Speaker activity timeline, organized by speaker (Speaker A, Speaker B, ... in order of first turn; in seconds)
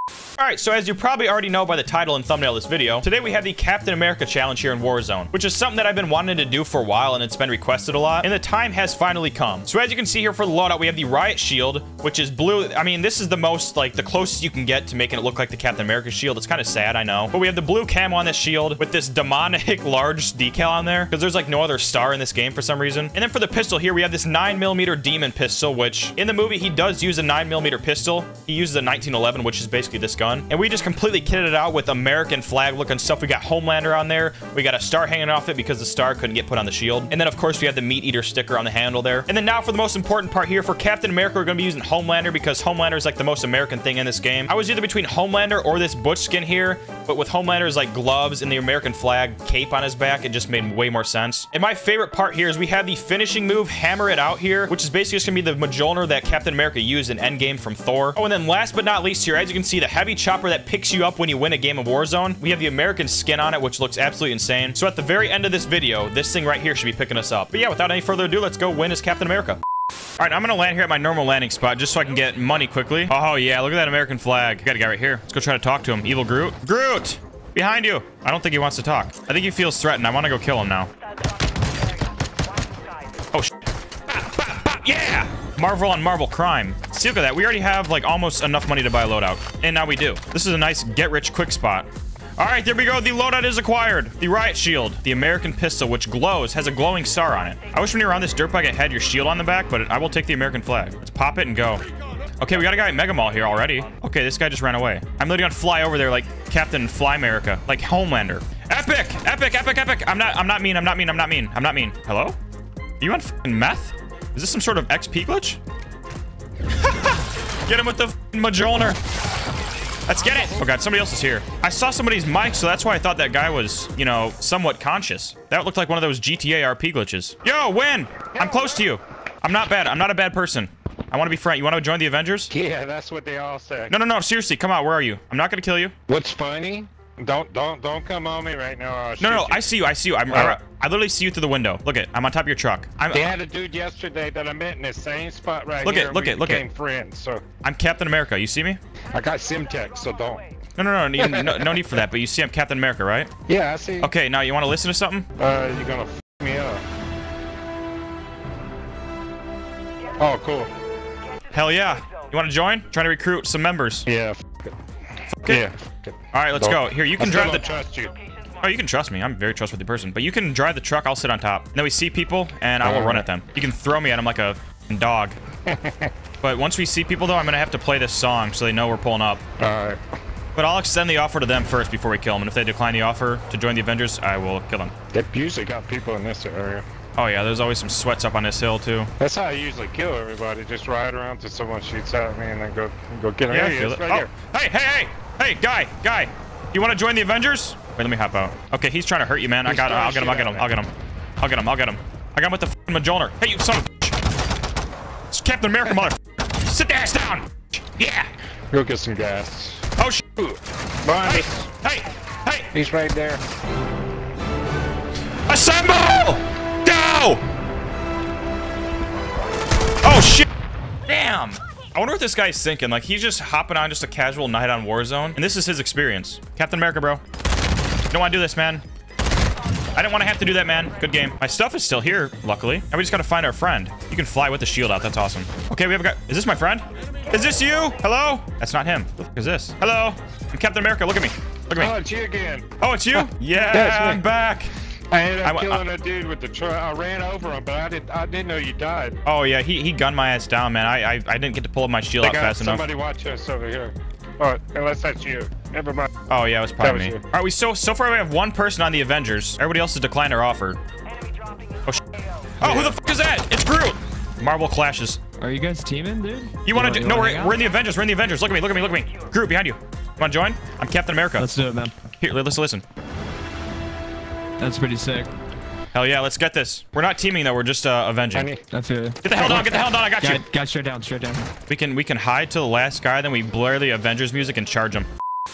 Speaker A: 0.4-69.6, 70.2-80.9, 84.1-101.8, 102.4-112.4, 113.0-115.6, 116.7-119.0, 120.1-132.5, 133.9-135.9, 139.2-143.3, 145.8-146.6, 147.6-148.8, 150.8-153.3, 154.0-155.3, 161.5-164.1, 165.3-165.7, 166.3-167.7, 168.6-175.4, 176.4-179.4, 180.5-184.9, 187.2-189.1, 193.5-204.2, 205.3-208.3, 210.0-210.6, 211.2-212.7, 215.5-217.4, 220.0-220.5, 221.1-227.2, 228.1-228.8, 229.9-241.9, 242.8-244.7, 245.4-245.8, 249.2-252.8, 256.3-260.8, 262.6-265.2, 266.6-271.5, 272.2-272.8, 275.9-278.5, 279.2-280.4, 281.7-285.1
Speaker B: 128.4-128.8, 132.5-133.9, 136.1-139.6, 140.3-140.6, 143.1-147.4, 149.1-150.5, 151.2-151.9, 153.5-154.1, 155.4-156.8, 160.2-160.7, 164.1-164.8, 165.4-168.1, 172.8-173.2, 175.7-176.1, 179.6-180.0, 185.1-186.8, 189.2-194.3, 199.6-200.7, 208.7-209.8, 211.0-211.7, 212.7-213.4, 241.8-244.2, 245.1-249.2, 252.2-256.1, 256.8-257.2, 278.3-278.6
Speaker C: 265.4-267.6, 271.4-271.9, 274.6-275.3, 278.7-281.5